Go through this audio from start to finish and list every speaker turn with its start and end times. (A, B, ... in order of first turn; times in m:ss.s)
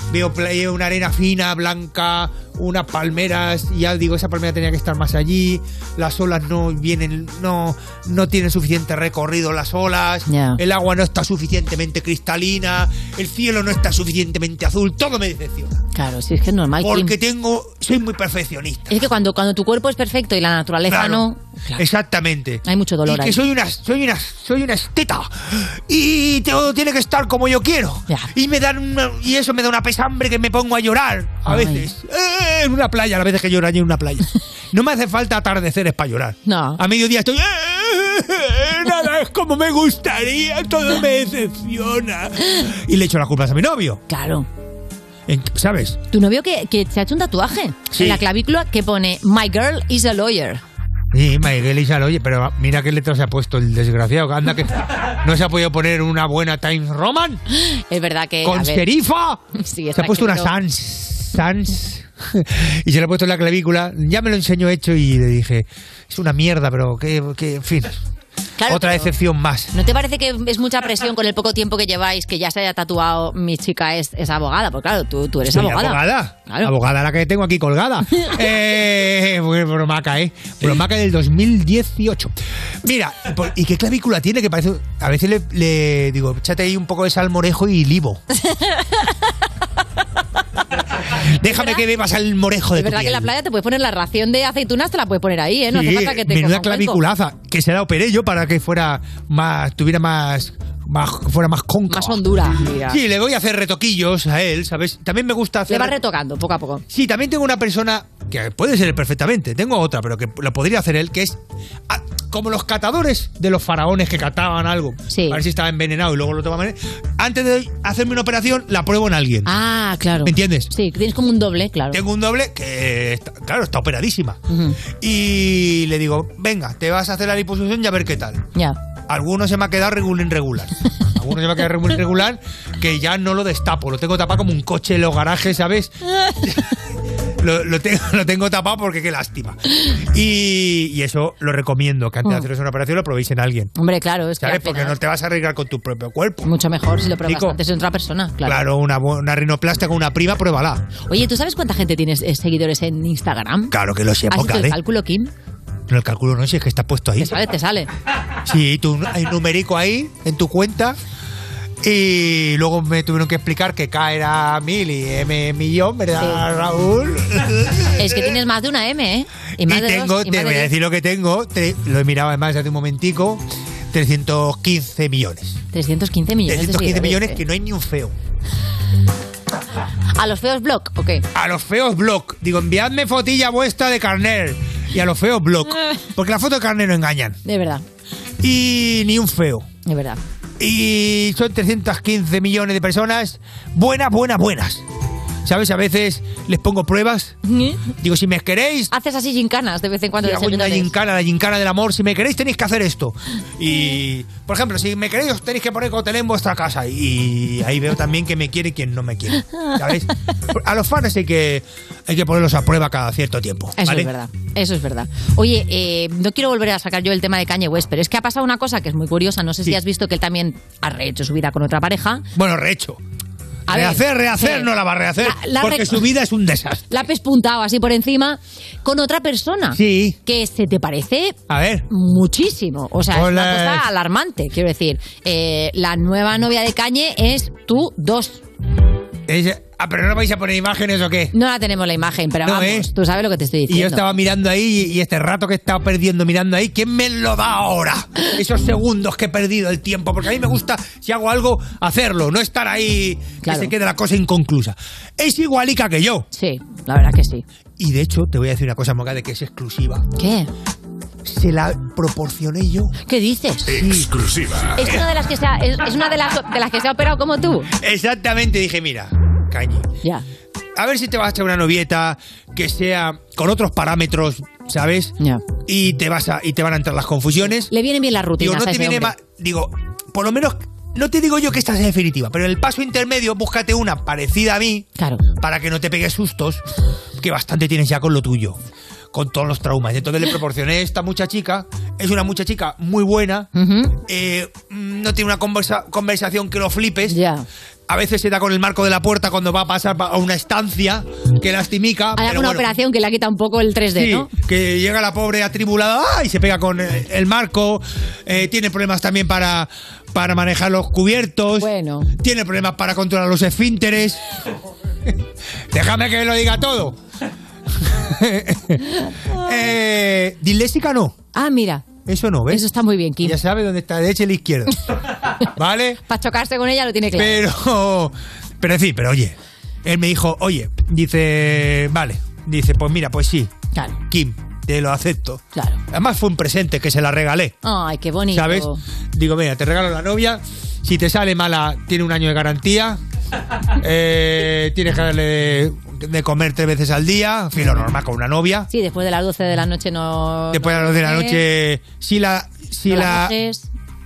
0:00.1-0:15.8 A
0:10.3-0:10.6 B
0:15.9-0:17.1 B
0:16.8-0:19.0 A
0:18.9-0:21.8 B
0:20.9-0:44.0 A
0:22.6-0:23.4 B
0:31.4-0:31.9 B
0:36.4-0:36.8 B
0:44.1-0:44.4 B
0:45.3-0:46.0 A
0:46.1-0:50.6 B
0:47.9-0:48.2 A
0:51.1-0:57.4 A
0:57.6-0:58.8 B
0:58.4-0:59.4 A
0:59.5-1:00.5 B
0:59.9-1:08.0 A
1:08.6-1:09.1 B
1:08.7-1:09.7 A
1:09.7-1:16.7 B
1:15.4-1:22.3 A
1:22.8-1:28.2 A
1:28.4-1:29.2 B
1:31.2-1:33.3 A
1:31.4-1:31.8 B
1:32.8-1:37.0 B
1:35.7-1:42.2 A
1:41.9-1:43.0 B
1:42.9-1:46.0 A
1:45.7-1:46.8 B
1:46.9-1:51.4 A
1:51.9-1:59.5 A
1:55.1-1:55.4 B
1:59.4-2:02.0 B
2:00.2-2:00.7 A
2:01.9-2:04.4 A
2:04.5-2:04.8 B
2:05.0-2:08.4 A
2:09.1-2:15.9 A
2:17.4-2:19.6 A
2:20.1-2:23.7 A
2:23.8-2:25.0 B
2:24.4-2:26.5 A
2:26.4-2:28.6 B
2:27.2-2:27.6 A
2:28.4-2:30.8 A
2:31.1-2:33.7 B
2:33.7-2:34.8 A
2:34.3-2:35.3 B
2:35.9-2:37.4 A
2:37.2-2:37.9 B
2:38.4-2:41.0 A
2:41.8-2:48.3 A
2:46.2-2:46.4 B
2:48.0-2:50.7 B
2:49.6-2:55.6 A
2:55.7-2:57.4 B
2:56.5-2:58.1 A
3:00.2-3:01.2 B
3:01.3-3:07.4 A
3:07.4-3:07.8 B
3:08.4-3:09.6 A
3:09.8-3:10.2 B
3:10.6-3:14.8 A
3:15.4-3:17.4 A
3:17.4-3:17.9 B
3:18.0-3:18.9 A
3:18.9-3:20.9 B
3:20.2-3:34.1 A
3:33.8-3:42.2 B
3:42.3-3:43.0 A
3:43.7-3:46.0 B
3:43.7-3:47.0 A
3:46.9-3:51.4 B
3:49.7-3:50.2 A
3:51.5-3:51.8 A
3:51.9-3:58.4 B
3:53.1-3:53.8 A
3:59.3-4:01.3 A
4:01.3-4:04.1 B
4:02.4-4:02.9 A
4:03.7-4:16.2 A
4:13.4-4:13.7 B
4:16.3-4:17.4 B
4:17.8-4:20.0 A
4:20.2-4:20.5 B
4:21.2-4:22.9 A
4:23.0-4:23.8 B
4:23.7-4:24.2 A
4:24.8-4:27.7 B
4:27.8-4:29.8 A
4:30.8-4:35.2 A
4:35.7-4:37.7 A
4:37.7-4:39.1 B
4:38.4-4:44.9 A
4:45.0-4:45.2 B
4:45.4-4:46.6 A
4:47.2-4:48.6 A
4:49.1-4:53.5 A
4:53.5-4:53.9 B
4:54.1-4:57.2 A
4:57.1-4:57.4 B
4:57.9-5:02.7 A
5:02.2-5:04.3 B
5:03.9-5:14.2 A
5:11.6-5:12.1 B
5:15.7-5:17.0 A
5:17.8-5:21.1 A
5:21.3-5:21.9 B
5:22.0-5:22.7 A
5:22.5-5:23.4 B
5:23.2-5:24.7 A
5:25.5-5:26.0 A
5:26.1-5:27.4 B
5:27.1-5:33.5 A
5:34.0-5:35.4 A
5:35.5-5:35.8 B
5:35.9-5:37.5 A
5:37.6-5:38.8 B
5:38.3-5:43.0 A
5:43.8-5:48.7 A
5:47.6-5:47.9 B
5:48.7-5:51.4 B
5:50.5-5:53.4 A
5:52.9-5:53.7 B